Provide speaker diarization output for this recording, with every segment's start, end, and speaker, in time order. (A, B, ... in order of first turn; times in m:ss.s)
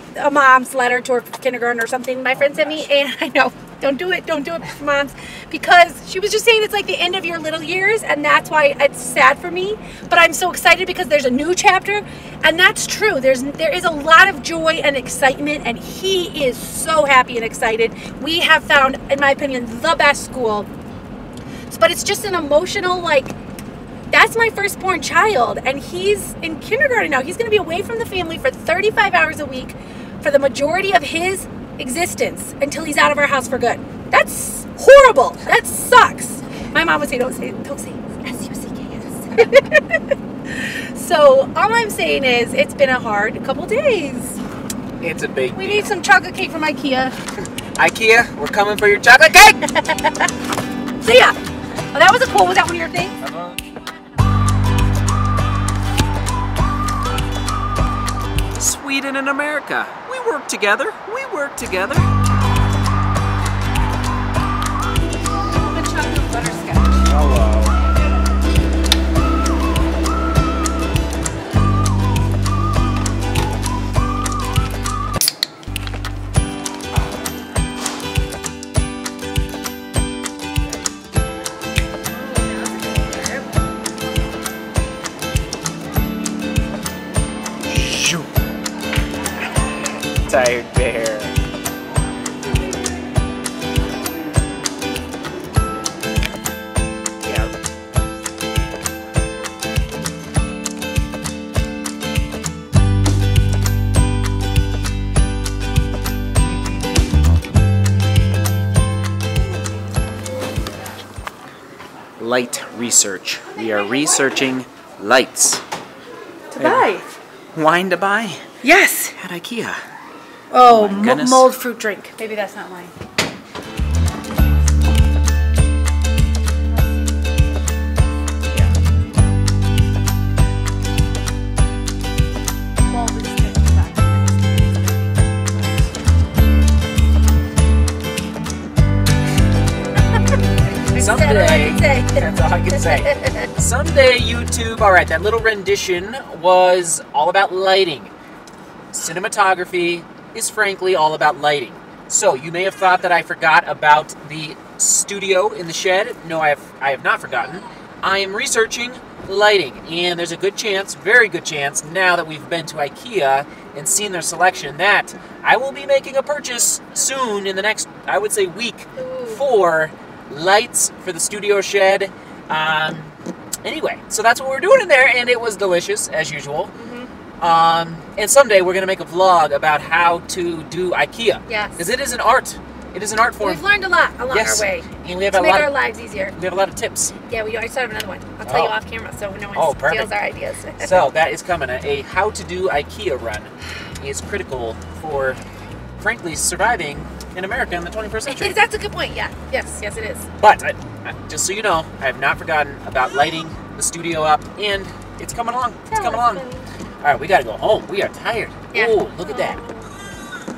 0:00.2-0:20.7 A
0:02.4-0:02.8 B
0:21.7-0:23.4 A
0:24.1-0:44.4 A
0:45.0-0:45.9 B
0:45.5-0:47.2 A
0:47.8-0:49.6 B
0:49.6-0:50.3 A
0:51.0-0:51.4 A
0:51.9-0:53.2 A
0:53.2-0:53.6 B
0:58.5-1:02.1 B
1:05.5-1:07.2 A
1:07.1-1:07.8 B
1:22.1-1:23.5 A
1:27.6-1:28.3 B
1:30.2-1:31.3 B
1:37.2-1:37.5 B
1:52.2-1:55.6 B
1:56.5-1:57.1 A
1:56.6-1:56.9 B
1:57.5-1:58.4 B
1:58.6-1:59.2 A
1:59.2-1:59.8 B
2:00.5-2:02.9 A
2:00.6-2:01.5 B
2:12.9-2:15.1 A
2:20.8-2:22.3 A
2:21.0-2:28.1 B
2:22.8-2:23.5 A
2:28.9-2:56.7 B
2:49.0-2:49.4 A
2:56.7-2:57.1 A
2:57.4-3:03.6 B
3:01.5-3:01.8 A
3:03.4-3:06.4 A
3:04.3-3:05.7 B
3:06.3-3:07.1 B
3:07.3-3:11.0 A
3:08.4-3:08.7 B
3:09.5-3:10.1 B
3:10.8-3:15.4 B
3:16.0-3:18.6 B
3:18.3-3:20.3 A
3:20.4-3:26.4 B
3:25.9-3:26.7 A
3:27.0-3:29.6 B
3:28.7-3:29.9 A